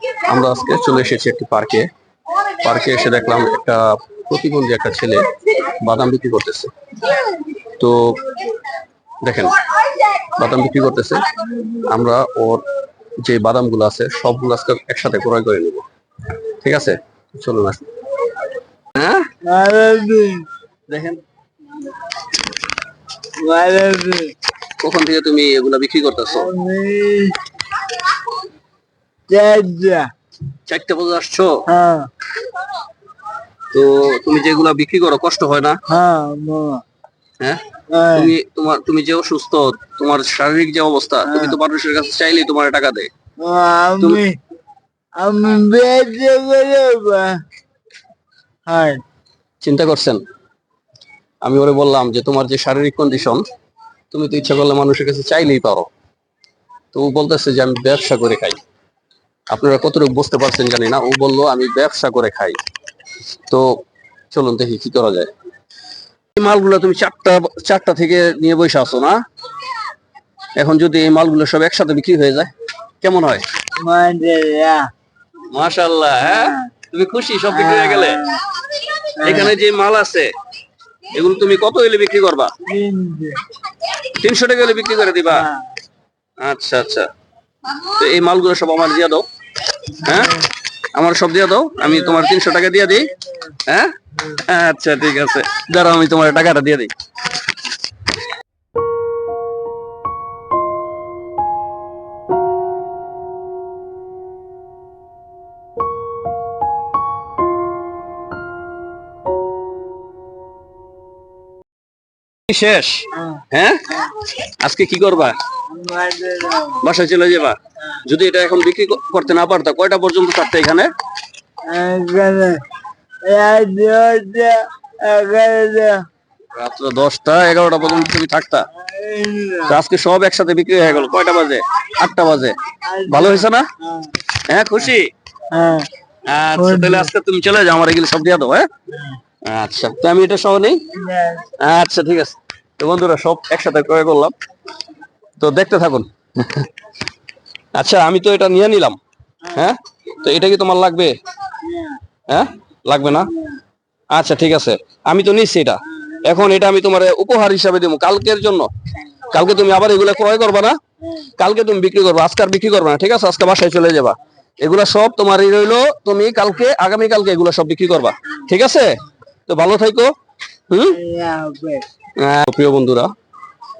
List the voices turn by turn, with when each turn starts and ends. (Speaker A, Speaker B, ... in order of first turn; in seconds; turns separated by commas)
Speaker A: 0.2-1.9, Speaker A: 2.5-7.2, Speaker A: 7.8-8.3, Speaker A: 9.2-12.6, Speaker A: 13.2-18.3, Speaker A: 18.9-19.2, Speaker B: 19.4-20.4, Speaker A: 20.9-21.2, Speaker B: 23.4-24.3, Speaker A: 24.8-26.5, Speaker B: 26.3-28.0, Speaker B: 29.3-30.1, Speaker A: 30.7-31.6, Speaker B: 31.7-32.1, Speaker A: 33.7-35.8, Speaker B: 35.9-36.8, Speaker B: 37.9-38.3, Speaker A: 38.1-43.1, Speaker B: 41.2-41.6, Speaker B: 43.4-44.4, Speaker B: 45.2-47.4, Speaker B: 48.7-49.0, Speaker A: 49.6-50.2, Speaker A: 51.4-53.4, Speaker A: 54.1-55.9, Speaker A: 56.9-58.6, Speaker A: 59.5-62.6, Speaker A: 63.5-63.7, Speaker A: 64.3-65.3, Speaker A: 66.3-69.2, Speaker A: 70.5-73.4, Speaker B: 73.8-74.9, Speaker A: 75.5-78.2, Speaker B: 76.2-76.7, Speaker B: 77.5-78.4, Speaker B: 79.2-79.5, Speaker A: 79.2-80.3, Speaker A: 81.1-82.5, Speaker B: 82.7-83.5, Speaker A: 83.9-85.5, Speaker B: 85.3-85.7, Speaker A: 86.4-87.1, Speaker A: 87.7-89.2, Speaker A: 89.9-93.1, Speaker B: 90.0-90.4, Speaker B: 91.8-92.3, Speaker B: 92.9-93.6, Speaker A: 93.7-97.4, Speaker A: 112.5-115.4, Speaker B: 115.7-116.8, Speaker A: 116.8-120.9, Speaker B: 121.7-122.6, Speaker B: 123.2-126.0, Speaker A: 126.5-128.7, Speaker B: 127.8-128.1, Speaker B: 128.7-129.8, Speaker A: 129.7-132.6, Speaker B: 132.9-134.1, Speaker A: 133.1-133.7, Speaker A: 134.3-135.1, Speaker B: 135.5-135.9, Speaker A: 136.3-138.7, Speaker B: 136.6-137.1, Speaker A: 139.4-140.8, Speaker B: 140.9-141.5, Speaker A: 141.6-144.3, Speaker A: 145.4-146.7, Speaker A: 147.7-151.2, Speaker B: 151.7-152.0, Speaker A: 152.3-153.3, Speaker A: 154.1-168.9, Speaker A: 169.5-170.1, Speaker A: 170.7-171.0, Speaker B: 170.9-171.9, Speaker A: 172.2-173.1